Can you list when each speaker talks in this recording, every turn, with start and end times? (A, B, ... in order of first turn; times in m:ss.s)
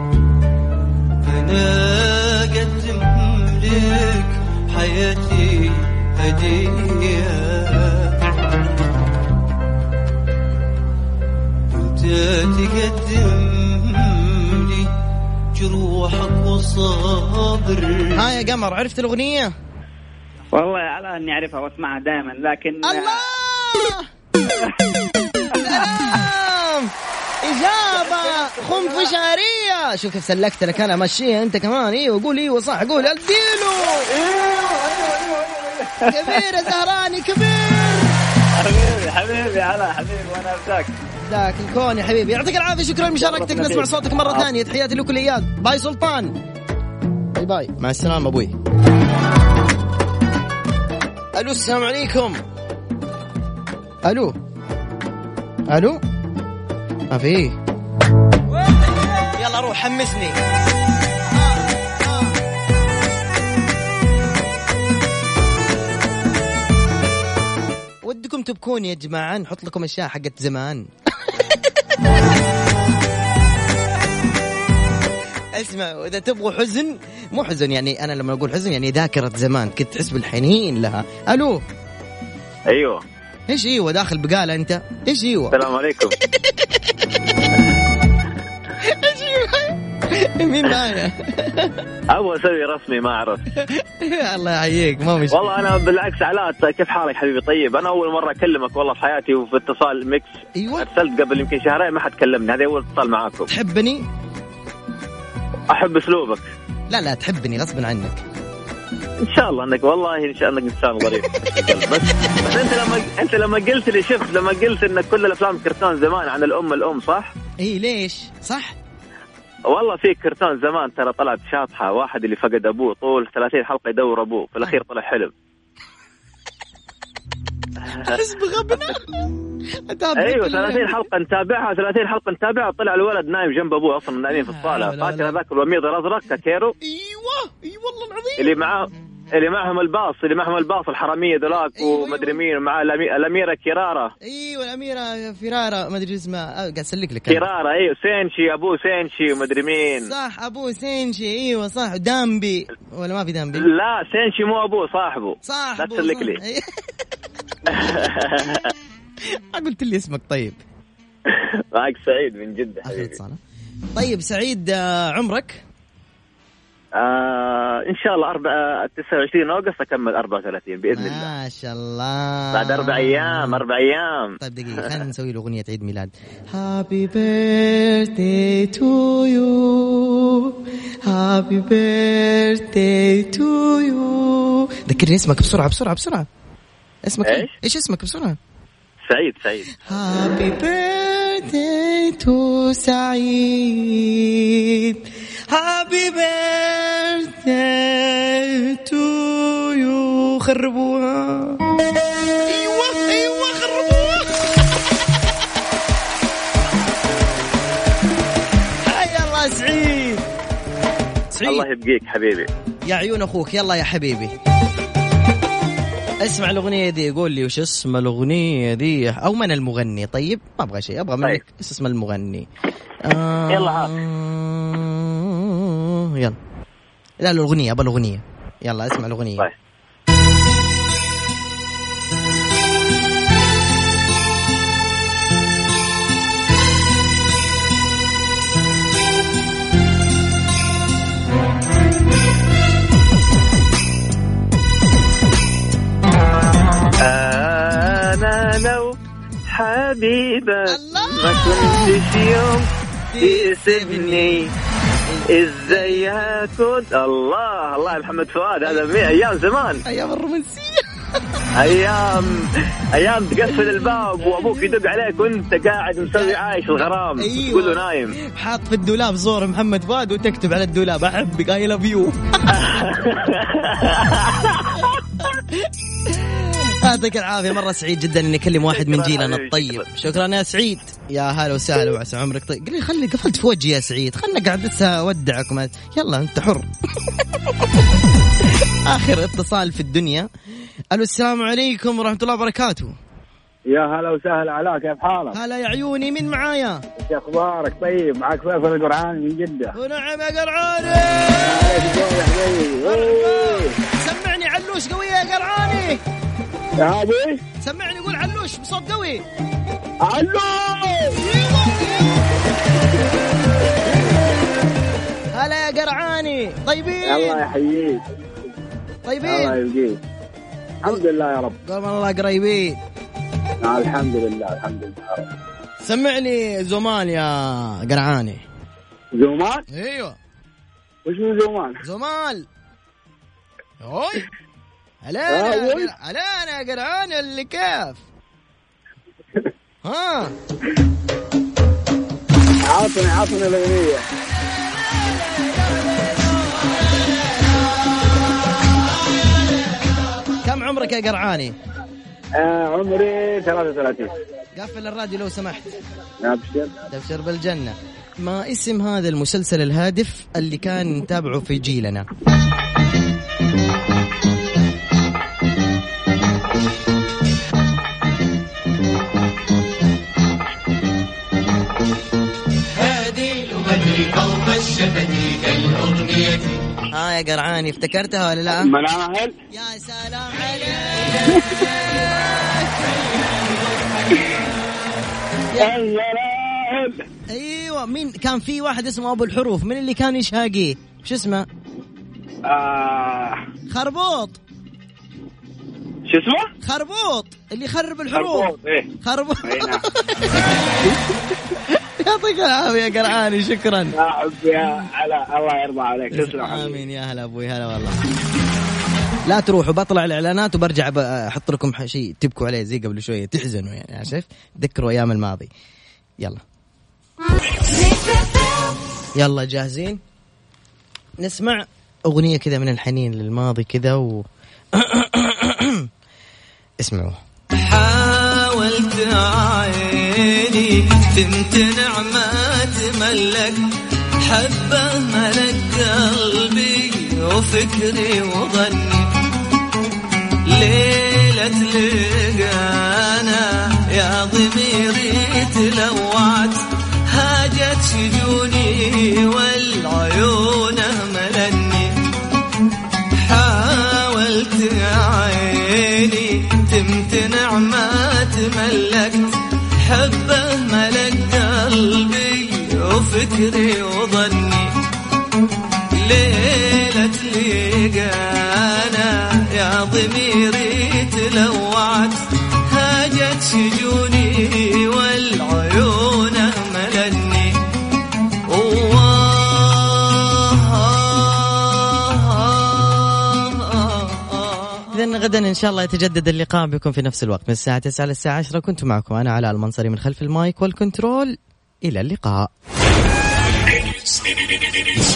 0:01.2-0:08.1 A
0:11.7-0:14.9 A
0:15.5-0:18.1 A
0:18.2-0:19.5 B
0:20.5-0:23.2 C
0:22.8-0:24.1 B
0:25.5-0:26.9 B
0:27.4-0:34.1 B
0:34.2-0:35.4 C
0:36.1-0:38.1 B
0:38.6-0:40.9 C
0:41.2-0:46.3 B
0:43.2-0:44.4 C
0:47.4-0:48.5 B
0:51.3-0:52.4 B
0:54.0-0:54.3 B
0:55.7-0:56.0 B
0:57.1-0:57.5 B
0:59.3-1:00.4 B
1:01.3-1:02.4 B
1:08.0-1:12.1 B
1:15.5-1:21.6 B
1:22.7-1:23.0 D
1:23.5-1:26.8 B
1:25.5-1:26.1 D
1:28.8-1:31.8 B
1:32.1-1:33.4 D
1:33.6-1:35.5 B
1:35.3-1:43.5 D
1:40.6-1:40.9 B
1:43.5-1:44.0 B
1:45.7-1:46.4 D
1:46.9-1:48.2 B
1:49.3-1:57.3 D
1:51.1-1:51.8 B
1:57.6-1:58.8 B
1:59.7-2:05.3 D
2:08.0-2:09.2 B
2:09.8-2:11.1 B
2:10.2-2:16.7 D
2:14.3-2:15.4 B
2:16.8-2:18.7 B
2:18.4-2:24.1 D
2:21.5-2:22.4 B
2:24.2-2:27.4 B
2:27.3-2:30.1 D
2:30.0-2:33.7 B
2:33.6-2:36.4 D
2:35.4-2:36.7 B
2:37.7-2:38.7 D
2:39.3-2:40.6 B
2:41.3-2:43.1 D
2:42.8-2:43.4 B
2:43.9-2:45.6 B
2:47.0-2:51.3 D
2:50.9-2:53.6 B
2:52.5-2:55.0 D
2:54.4-3:06.3 B
3:07.0-3:08.4 B
3:07.2-3:07.5 D
3:09.1-3:09.7 D
3:09.8-3:21.6 B
3:22.5-3:25.3 B
3:28.8-3:30.2 B
3:31.3-3:31.6 B
3:31.4-3:32.5 D
3:32.8-3:34.3 B
3:36.2-3:42.4 B
3:43.0-3:46.4 B
3:47.2-3:49.4 B
4:07.0-4:09.0 D
4:09.5-4:12.7 D
4:10.7-4:12.0 B
4:13.1-4:14.4 B
4:13.2-4:14.5 D
4:15.1-4:16.4 B
4:15.3-4:19.8 D
4:19.8-4:21.4 B
4:21.6-4:22.4 D
4:22.9-4:28.1 D
4:27.2-4:32.8 B
4:32.5-4:34.8 D
4:35.3-4:46.7 B
4:38.7-4:39.8 D
4:48.8-4:50.3 B
4:50.9-4:52.9 B
4:53.7-4:55.4 E
4:55.3-4:56.8 B
4:57.0-4:59.7 E
4:59.7-5:02.0 B
5:01.4-5:03.7 E
5:02.8-5:06.0 B
5:06.8-5:07.4 E
5:07.6-5:09.2 B
5:10.0-5:11.1 E
5:10.9-5:12.3 B
5:15.3-5:17.4 B
5:17.0-5:18.0 E
5:19.0-5:19.6 B
5:19.2-5:20.0 E
5:20.8-5:21.5 E
5:21.6-5:22.8 B
5:23.6-5:25.3 E
5:25.8-5:28.4 B
5:29.2-5:29.6 E
5:29.7-5:30.2 B
5:31.0-5:31.8 E
5:31.8-5:32.4 B
5:33.8-5:34.2 B
5:35.0-5:38.0 B
5:35.3-5:35.9 E
5:39.8-5:40.3 B
5:42.7-5:44.0 E
5:50.4-5:51.5 B
5:52.4-5:54.1 E
5:54.5-5:55.8 B
5:56.2-5:56.7 E
5:56.9-6:02.1 B
6:16.9-6:18.7 B
6:18.6-6:19.3 E
6:19.5-6:23.4 B
6:25.5-6:25.8 B
6:25.6-6:27.0 E
6:27.3-6:31.4 B
6:32.5-6:33.3 E
6:33.7-6:34.4 B
6:36.6-6:40.4 B
6:38.2-6:38.8 E
6:39.4-6:39.8 E
6:41.8-6:43.9 B
6:44.0-6:46.8 E
6:46.1-6:48.0 B
6:49.2-6:55.5 B
6:59.2-7:00.0 B
7:01.2-7:05.9 B
7:06.8-7:07.2 B
7:07.6-7:13.6 A
7:14.2-7:19.1 A
7:20.5-7:26.6 A
7:27.1-7:31.9 A
7:33.2-7:39.3 A
7:39.9-7:44.7 A
7:46.0-7:52.2 A
7:52.7-7:57.5 A
7:58.6-7:59.0 A
8:04.5-8:12.5 B